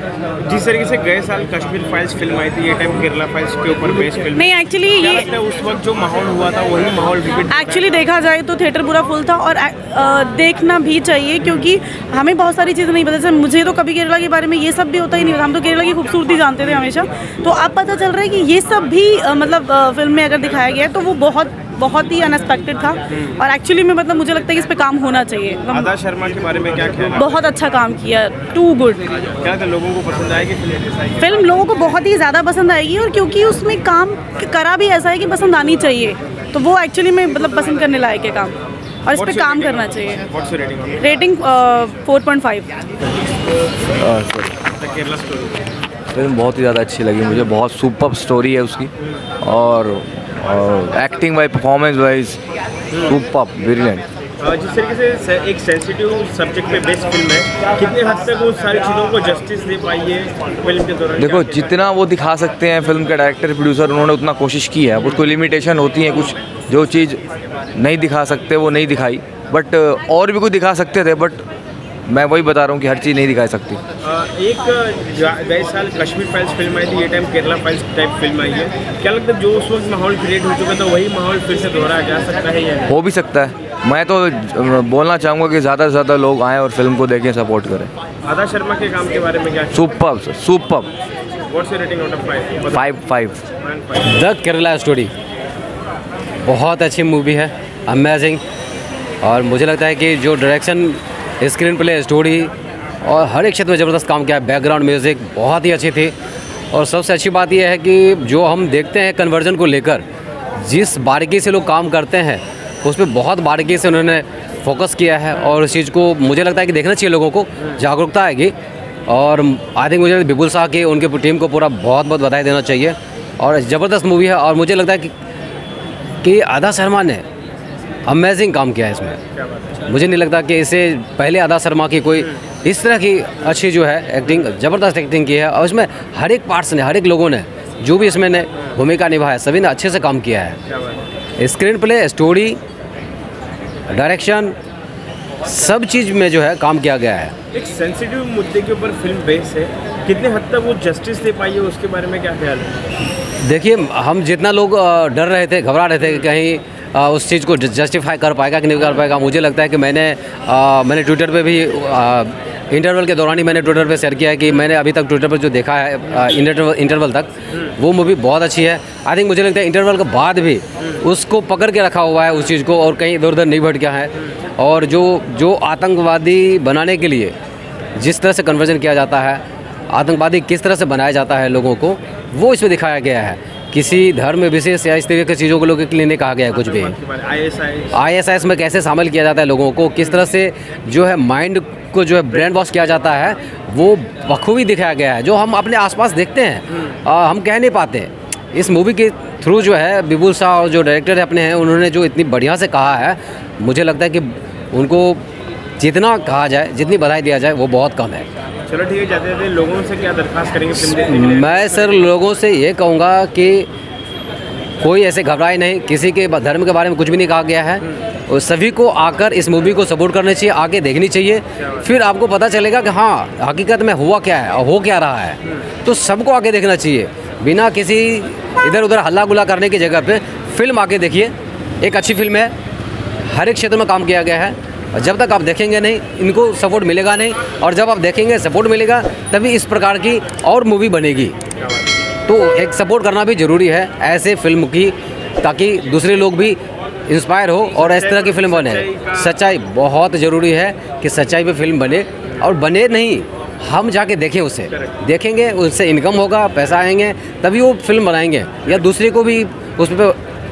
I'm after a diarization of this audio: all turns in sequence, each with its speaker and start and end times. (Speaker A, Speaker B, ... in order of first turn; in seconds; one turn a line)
Speaker A: 0.4-7.9
Speaker B: 4.3-5.3
Speaker B: 7.5-25.9
Speaker A: 25.7-27.4
Speaker B: 27.2-29.1
Speaker A: 29.4-31.2
Speaker B: 31.2-40.2
Speaker A: 39.1-41.1
Speaker B: 41.0-42.7
Speaker C: 44.0-44.5
Speaker A: 44.8-45.6
Speaker C: 46.1-48.9
Speaker C: 49.4-52.4
Speaker C: 53.0-54.0
Speaker A: 54.4-61.8
Speaker C: 61.2-67.2
Speaker C: 67.7-71.4
Speaker C: 72.1-73.8
Speaker A: 74.0-82.9
Speaker C: 82.9-87.9
Speaker A: 88.2-89.8
Speaker C: 89.7-90.9
Speaker A: 91.5-92.9
Speaker C: 92.7-93.4
Speaker A: 93.6-94.2
Speaker D: 94.0-95.1
Speaker D: 96.4-98.4
Speaker D: 99.2-102.5
Speaker D: 103.0-106.1
Speaker D: 106.7-110.0
Speaker D: 110.6-118.5
Speaker D: 119.1-125.1
Speaker D: 126.2-127.2
Speaker D: 128.1-129.2
Speaker A: 129.4-129.8
Speaker D: 129.9-140.6
Speaker A: 140.7-141.0
Speaker D: 141.4-142.6
Speaker D: 143.9-144.5
Speaker D: 145.4-147.3
Speaker A: 147.5-152.8
Speaker D: 153.4-177.3
Speaker D: 178.0-186.9
Speaker A: 186.5-188.0
Speaker D: 187.9-205.2
Speaker D: 205.8-208.2
Speaker A: 208.7-212.1
Speaker D: 210.8-213.7
Speaker D: 214.8-232.5
Speaker D: 233.3-241.3
Speaker A: 241.6-241.9
Speaker D: 242.3-260.1
Speaker A: 247.7-249.3